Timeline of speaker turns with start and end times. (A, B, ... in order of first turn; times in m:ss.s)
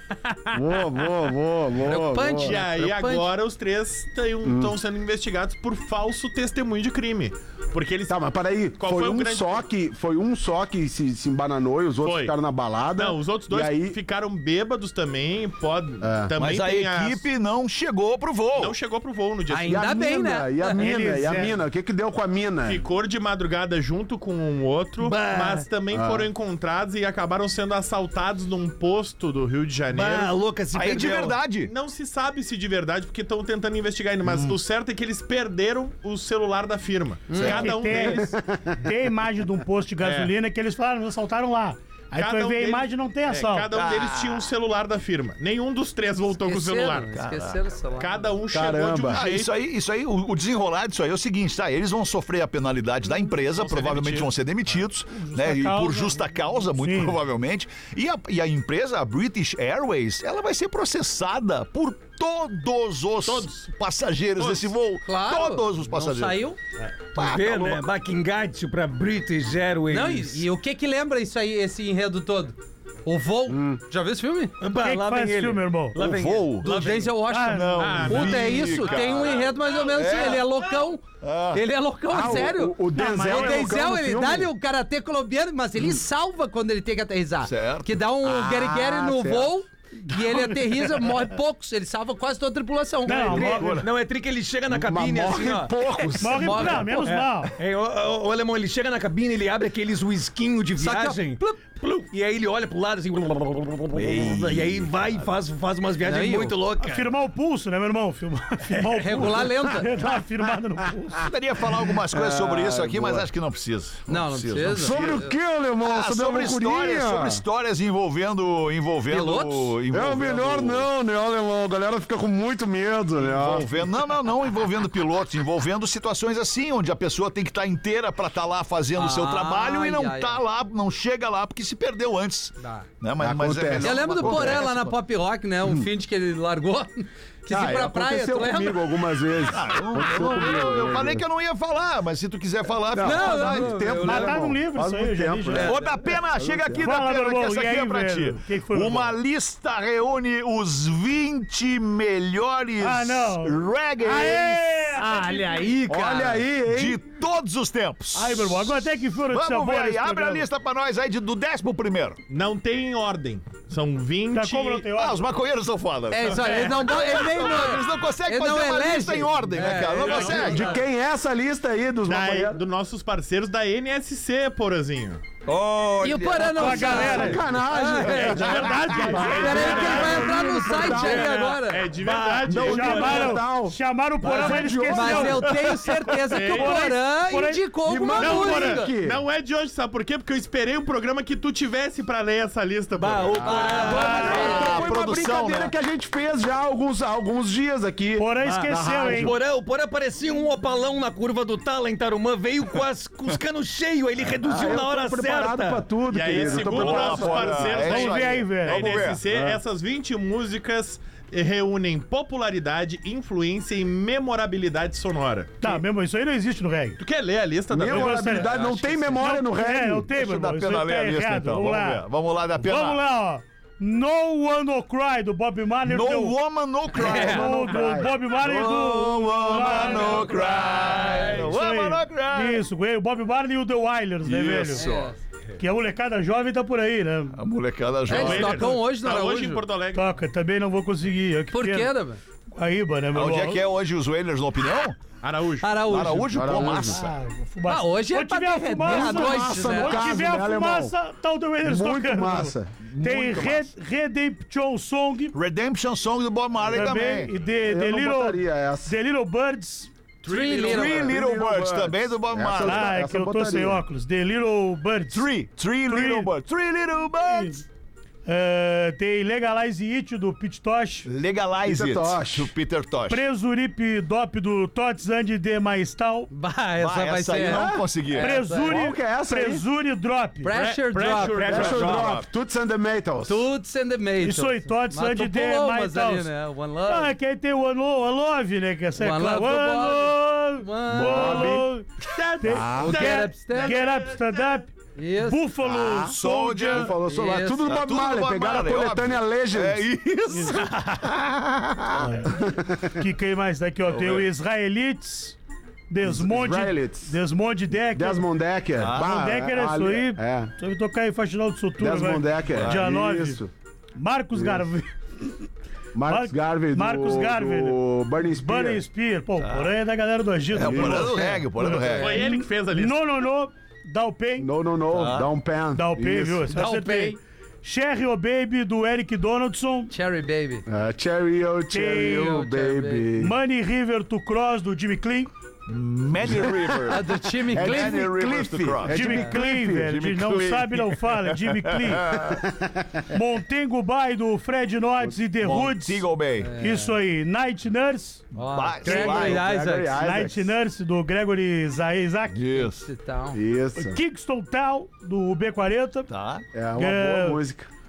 0:00.5-0:02.6 A
0:01.8-0:03.3 B
0:02.4-0:08.2 C
0:04.4-0:04.8 A
0:08.1-0:14.0 A
0:08.8-0:09.6 C
0:12.0-0:12.3 C
0:12.9-0:17.2 C
0:16.0-0:16.3 A
0:16.4-0:18.7 D
0:18.5-0:19.9 C
0:19.5-0:20.8 B
0:19.6-0:22.8 A
0:20.8-0:21.5 E
0:22.6-0:30.3 C
0:25.0-0:25.6 F
0:25.9-0:26.3 A
0:29.9-0:31.4 F
0:30.7-0:31.7 D
0:31.6-0:38.3 C
0:34.2-0:34.5 A
0:37.3-0:37.6 B
0:37.3-0:37.9 D
0:37.5-0:43.7 E
0:38.2-0:38.7 A
0:40.0-0:40.3 C
0:42.1-0:47.1 C
0:43.7-0:44.5 D
0:46.4-0:48.3 B
0:47.1-0:47.6 D
0:48.0-0:49.5 C
0:48.5-0:49.2 A
0:49.1-1:06.4 D
0:53.5-0:54.8 C
0:55.1-0:57.2 E
1:03.2-1:03.7 C
1:04.4-1:04.7 C
1:05.0-1:06.6 B
1:07.1-1:07.8 D
1:07.2-1:10.4 F
1:09.9-1:14.5 B
1:13.5-1:13.8 A
1:14.6-1:17.1 F
1:14.7-1:16.0 E
1:16.0-1:20.5 D
1:16.6-1:33.6 B
1:17.2-1:18.1 E
1:17.8-1:19.5 C
1:21.2-1:21.6 D
1:22.1-1:24.5 A
1:22.9-1:23.8 E
1:27.4-1:28.0 D
1:28.2-1:29.5 A
1:30.1-1:31.1 E
1:33.0-1:33.8 E
1:33.2-1:35.7 F
1:33.5-1:33.9 D
1:34.7-1:36.8 A
1:36.2-1:37.5 E
1:36.2-1:37.0 B
1:36.8-1:47.1 F
1:40.8-1:41.5 B
1:43.9-1:44.9 D
1:46.0-1:46.6 B
1:46.8-1:51.3 E
1:49.0-1:49.9 B
1:51.2-1:55.2 D
1:52.0-1:53.3 A
1:54.1-1:55.4 B
1:54.7-1:57.4 A
1:55.8-2:00.9 D
1:59.1-1:59.8 B
1:59.9-2:03.7 A
2:03.2-2:14.9 D
2:08.9-2:10.4 B
2:12.6-2:12.9 B
2:13.2-2:14.7 A
2:13.8-2:18.8 B
2:17.5-2:21.2 A
2:19.5-2:23.9 D
2:22.9-2:25.7 A
2:23.0-2:24.4 B
2:23.9-2:25.7 E
2:25.5-2:25.9 B
2:25.6-2:35.0 D
2:26.4-2:26.9 A
2:26.8-2:29.2 E
2:32.8-2:35.8 E
2:35.0-2:36.4 B
2:35.9-2:37.0 A
2:36.6-2:42.2 D
2:38.1-2:40.4 E
2:42.3-2:44.9 C
2:44.3-2:45.2 E
2:44.9-2:50.7 D
2:46.1-2:50.7 B
2:50.0-2:50.7 C
2:50.4-2:52.6 A
2:52.0-2:55.2 C
2:55.4-2:57.4 D
2:56.0-2:58.7 B
2:56.6-2:57.4 E
2:56.9-3:01.3 A
2:58.0-3:01.1 E
2:58.1-2:59.6 D
2:59.2-3:01.9 B
2:59.4-3:00.4 C
3:01.0-3:01.2 F
3:01.6-3:03.4 C
3:02.0-3:03.0 F
3:02.5-3:05.5 A
3:02.6-3:05.6 E
3:04.3-3:08.9 B
3:05.5-3:06.9 C
3:06.3-3:07.6 E
3:07.8-3:09.2 A
3:08.2-3:13.9 C
3:13.0-3:14.5 F
3:13.4-3:19.3 A
3:13.5-3:14.8 B
3:13.9-3:14.6 E
3:13.9-3:15.7 D
3:18.2-3:19.3 E
3:18.4-3:25.8 F
3:24.4-3:27.9 A
3:26.1-3:35.8 C
3:26.4-3:29.2 D
3:27.8-3:29.0 E
3:29.3-3:29.6 A
3:35.6-3:37.0 E
3:37.0-3:39.2 C
3:37.7-3:40.1 A
3:37.8-3:38.6 E
3:39.1-3:42.0 E
3:40.1-3:43.0 D
3:42.6-3:46.4 E
3:45.8-3:47.7 D
3:46.9-3:47.4 B
3:47.0-3:48.1 A
3:47.0-3:54.8 E
3:48.3-3:52.6 D
3:50.0-3:51.3 B
3:51.1-3:51.4 C
3:54.2-3:55.1 D
3:54.7-3:55.2 B
3:55.6-3:57.4 E
3:57.4-3:58.7 D
3:58.0-3:59.6 B
3:58.1-4:00.0 C
3:59.9-4:01.9 E
4:01.5-4:02.2 B
4:02.5-4:03.6 E
4:03.1-4:05.0 D
4:05.2-4:05.7 C
4:05.6-4:06.8 B
4:05.8-4:07.1 D
4:06.3-4:07.0 A
4:06.9-4:15.3 E
4:07.7-4:10.2 B
4:08.8-4:10.9 A
4:11.6-4:12.7 A
4:12.8-4:13.7 D
4:15.3-4:17.3 D
4:16.7-4:19.9 E
4:17.6-4:18.9 A
4:20.2-4:21.1 C
4:20.2-4:21.1 B
4:20.6-4:23.0 D
4:20.8-4:23.8 A
4:22.6-4:25.3 E
4:25.1-4:27.6 D
4:25.9-4:26.3 E
4:27.2-4:27.6 E
4:28.2-4:31.1 E
4:31.0-4:33.2 D
4:31.6-4:32.5 A
4:33.1-4:36.3 E
4:36.3-4:38.7 B
4:36.8-4:38.3 D
4:37.4-4:37.8 A
4:38.2-4:40.5 E
4:38.6-4:39.6 A
4:40.4-4:41.4 B
4:40.5-4:42.0 C
4:41.3-4:42.2 F
4:41.5-4:43.5 A
4:41.5-4:42.3 D
4:43.2-4:47.1 B
4:44.2-4:46.3 E
4:46.9-4:51.9 E
4:49.0-4:51.6 B
4:50.9-4:51.7 A
4:52.1-4:54.4 C
4:52.4-4:56.9 E
4:52.5-4:53.1 A
4:52.7-4:53.8 B
4:55.0-4:55.4 B
4:55.6-4:59.8 A
4:56.0-4:56.9 D
4:57.0-4:57.6 B
4:57.6-5:02.2 D
5:00.3-5:01.0 E
5:01.9-5:05.4 E
5:02.3-5:02.9 A
5:03.9-5:04.3 D
5:05.9-5:08.3 E
5:06.0-5:07.2 A
5:07.9-5:10.5 A
5:08.8-5:09.3 D
5:09.0-5:13.4 E
5:11.8-5:13.5 A
5:12.5-5:12.8 D
5:14.0-5:14.9 E
5:14.3-5:14.6 A
5:15.9-5:18.8 A
5:16.0-5:24.5 E
5:19.4-5:19.7 D
5:20.5-5:22.2 D
5:20.6-5:21.4 A
5:21.7-5:22.2 B
5:21.9-5:23.2 C
5:24.4-5:26.5 A
5:24.9-5:25.3 D
5:25.7-5:29.9 E
5:26.5-5:27.2 B
5:29.9-5:30.6 B
5:30.7-5:33.3 A
5:31.7-5:32.3 E
5:32.1-5:33.1 B
5:33.1-5:35.3 E
5:35.7-5:39.3 D
5:36.2-5:36.7 A
5:36.9-5:38.0 B
5:37.5-5:39.9 A
5:38.9-5:42.1 E
5:39.8-5:42.4 D
5:42.3-5:43.0 A
5:43.1-5:46.0 E
5:45.4-5:46.5 D
5:46.4-5:46.9 B
5:46.6-5:48.3 E
5:48.3-5:49.4 D
5:48.3-5:50.0 B
5:48.8-5:49.1 E
5:48.9-5:50.5 A
5:49.9-5:52.4 E
5:52.3-5:52.9 D
5:52.6-5:53.4 B
5:53.3-5:54.0 A
5:53.8-5:56.1 E
5:56.1-5:56.4 D
5:56.5-5:57.7 A
5:56.8-5:57.4 E